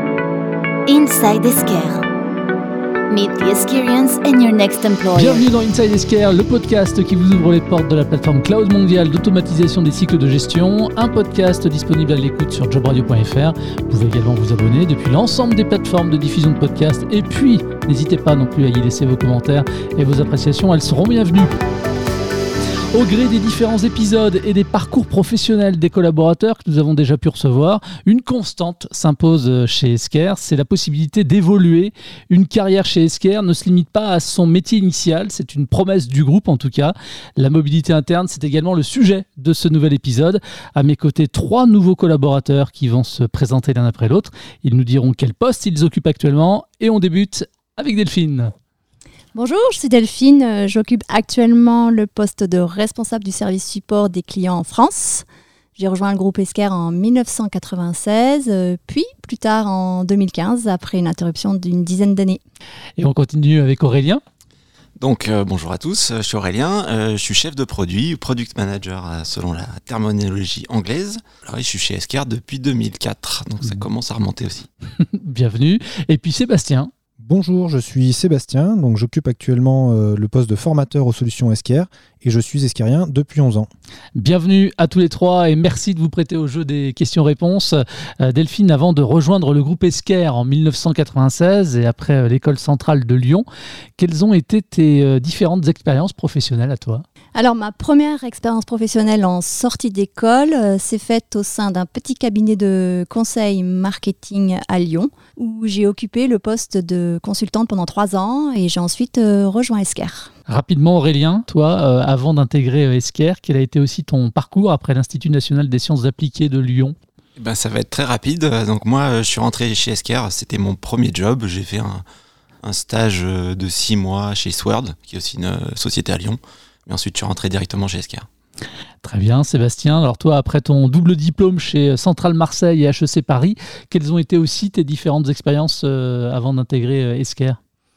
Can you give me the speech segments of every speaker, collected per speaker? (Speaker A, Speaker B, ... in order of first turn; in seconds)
Speaker A: 0.9-2.0, 3.1-5.4
Speaker B: 5.1-21.5, 22.9-48.5, 63.0-64.2, 75.0-76.9, 84.1-93.4, 94.0-97.0, 110.5-116.9, 129.0-137.6
Speaker C: 49.3-62.4, 97.3-110.3
Speaker D: 65.0-74.7, 117.4-122.0, 122.6-128.3
Speaker E: 77.2-83.7